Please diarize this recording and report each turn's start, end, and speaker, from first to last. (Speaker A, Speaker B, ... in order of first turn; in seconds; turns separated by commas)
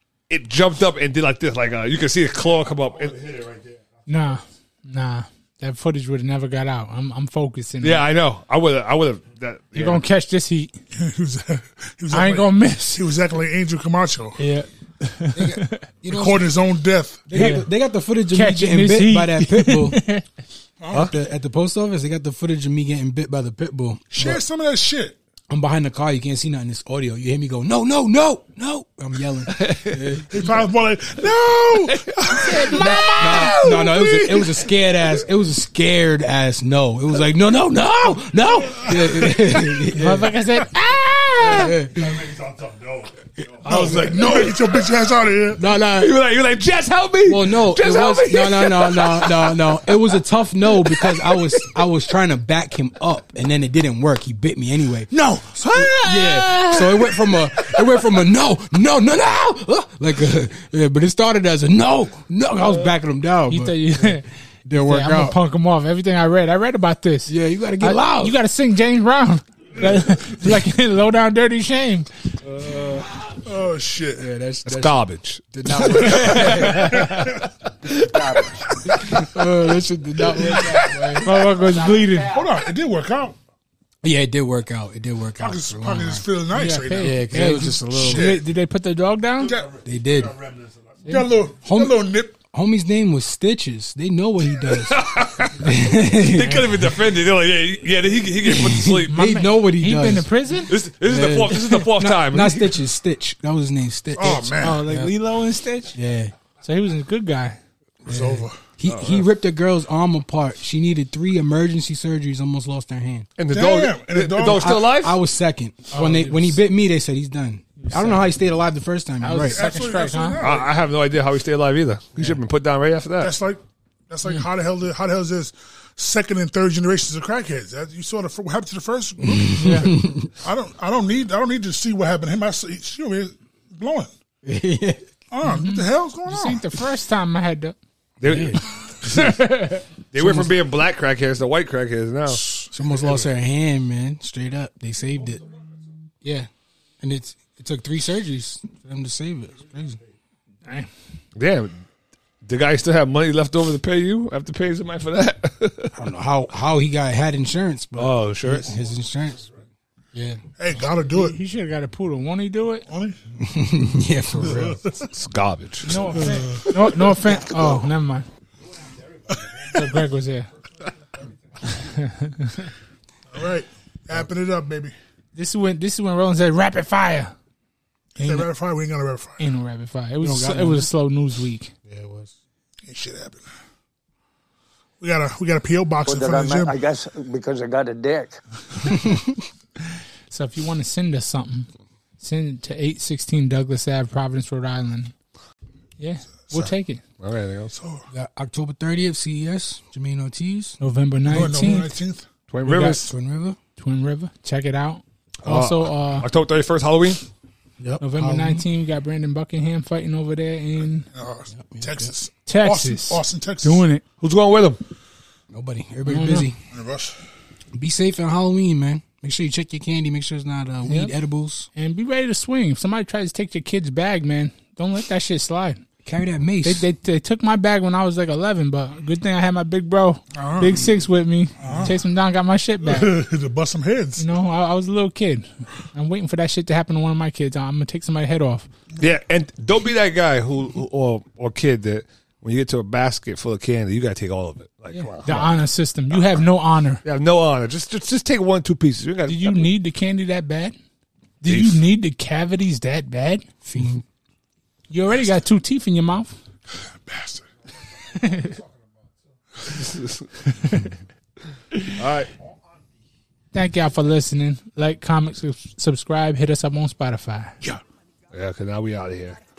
Speaker A: 0.3-3.8, Speaker B: 4.1-8.0, Speaker A: 7.8-10.0, Speaker B: 9.8-10.7, Speaker C: 11.0-14.4, Speaker B: 12.1-13.1, Speaker B: 14.4-15.8, Speaker D: 15.3-16.6, Speaker C: 16.1-17.5, Speaker D: 17.3-20.0, Speaker B: 17.3-17.7, Speaker B: 18.3-20.2, Speaker C: 20.8-21.1, Speaker D: 20.9-24.4, Speaker C: 24.1-25.2, Speaker D: 25.5-30.6, Speaker A: 29.5-30.2, Speaker C: 30.3-34.0, Speaker B: 32.4-34.1, Speaker D: 32.7-40.4, Speaker B: 39.9-41.8, Speaker D: 41.4-42.3, Speaker A: 43.4-44.8, Speaker C: 43.6-45.6, Speaker D: 45.5-46.1, Speaker A: 45.9-50.0, Speaker D: 47.3-55.1, Speaker A: 50.8-51.7, Speaker B: 55.1-57.9, Speaker D: 55.8-65.4, Speaker B: 63.5-72.1, Speaker D: 67.3-68.4, Speaker A: 72.5-73.1, Speaker C: 73.4-74.3, Speaker D: 74.2-77.3, Speaker A: 74.7-79.2, Speaker B: 76.6-77.1, Speaker D: 77.9-81.3, Speaker B: 81.2-82.4, Speaker C: 82.3-83.4, Speaker D: 84.0-86.3, Speaker C: 85.4-87.4, Speaker B: 86.5-89.6, Speaker D: 86.9-88.4, Speaker C: 87.9-88.5, Speaker C: 89.5-89.8, Speaker D: 89.8-90.4, Speaker C: 91.0-92.3, Speaker B: 91.0-91.3, Speaker D: 91.6-96.7, Speaker A: 94.8-99.2, Speaker D: 98.4-100.3, Speaker B: 99.1-100.7, Speaker A: 100.7-102.8, Speaker D: 101.0-105.1, Speaker C: 104.2-104.8, Speaker B: 104.6-106.0, Speaker D: 105.9-106.3, Speaker B: 106.6-107.6, Speaker C: 108.1-108.6, Speaker D: 108.1-113.3, Speaker A: 108.8-109.3, Speaker A: 113.4-115.2, Speaker C: 113.5-114.8, Speaker D: 114.3-119.7, Speaker B: 115.9-116.5, Speaker B: 117.8-118.2, Speaker B: 119.2-120.4, Speaker C: 119.4-120.8, Speaker A: 120.4-123.3, Speaker C: 123.2-134.1, Speaker D: 129.3-130.3, Speaker B: 129.5-130.0, Speaker D: 134.4-135.0, Speaker C: 135.3-136.7, Speaker B: 135.4-137.8, Speaker A: 138.2-139.2, Speaker D: 138.2-138.6, Speaker B: 139.0-139.8, Speaker A: 140.1-142.4, Speaker D: 140.2-140.5, Speaker C: 142.4-143.2, Speaker D: 142.7-145.4, Speaker D: 146.2-146.5, Speaker D: 147.0-150.0, Speaker A: 151.4-151.8, Speaker A: 152.4-155.9, Speaker D: 156.0-159.5, Speaker A: 158.0-158.8, Speaker D: 160.1-160.4, Speaker C: 160.6-161.4, Speaker B: 161.1-162.8, Speaker C: 162.9-163.2, Speaker D: 163.4-164.8, Speaker C: 164.4-165.0, Speaker A: 165.1-166.0, Speaker B: 165.8-168.3, Speaker C: 165.9-167.2, Speaker B: 169.7-170.5, Speaker B: 171.7-172.7, Speaker C: 173.3-174.9, Speaker B: 175.3-177.3, Speaker C: 178.2-179.4, Speaker B: 178.2-178.5, Speaker B: 179.4-181.7, Speaker D: 180.2-180.9, Speaker D: 181.9-182.3, Speaker C: 182.9-183.4, Speaker C: 185.0-186.8, Speaker E: 186.1-188.3, Speaker D: 188.9-189.3, Speaker B: 190.3-191.7, Speaker B: 192.2-195.1, Speaker B: 196.0-197.0, Speaker C: 196.4-196.7, Speaker A: 197.2-197.7, Speaker C: 197.7-198.0, Speaker D: 198.1-200.8, Speaker B: 200.8-202.0, Speaker C: 201.3-202.3, Speaker A: 202.5-203.1, Speaker D: 202.6-203.6, Speaker B: 203.8-206.3, Speaker A: 205.4-207.2, Speaker D: 207.8-208.6, Speaker B: 208.0-211.1, Speaker C: 211.1-213.8, Speaker D: 211.5-212.1, Speaker B: 212.5-214.0, Speaker A: 214.2-214.8, Speaker D: 215.5-216.6, Speaker B: 216.1-216.5, Speaker C: 216.7-217.2, Speaker D: 217.7-221.7, Speaker B: 221.8-225.8, Speaker D: 226.1-226.9, Speaker B: 226.6-233.1, Speaker C: 230.3-230.9, Speaker C: 231.6-231.9, Speaker C: 232.8-234.3, Speaker B: 234.2-238.7, Speaker A: 239.0-245.6, Speaker B: 244.9-247.0, Speaker A: 247.0-249.7, Speaker B: 249.3-250.8, Speaker B: 251.4-253.4, Speaker A: 251.5-251.8, Speaker D: 253.7-254.0, Speaker B: 254.9-256.4, Speaker C: 257.1-257.4, Speaker B: 258.1-258.6, Speaker A: 259.6-260.4, Speaker B: 260.6-260.9, Speaker A: 262.0-262.3, Speaker B: 263.5-267.6, Speaker A: 268.3-269.4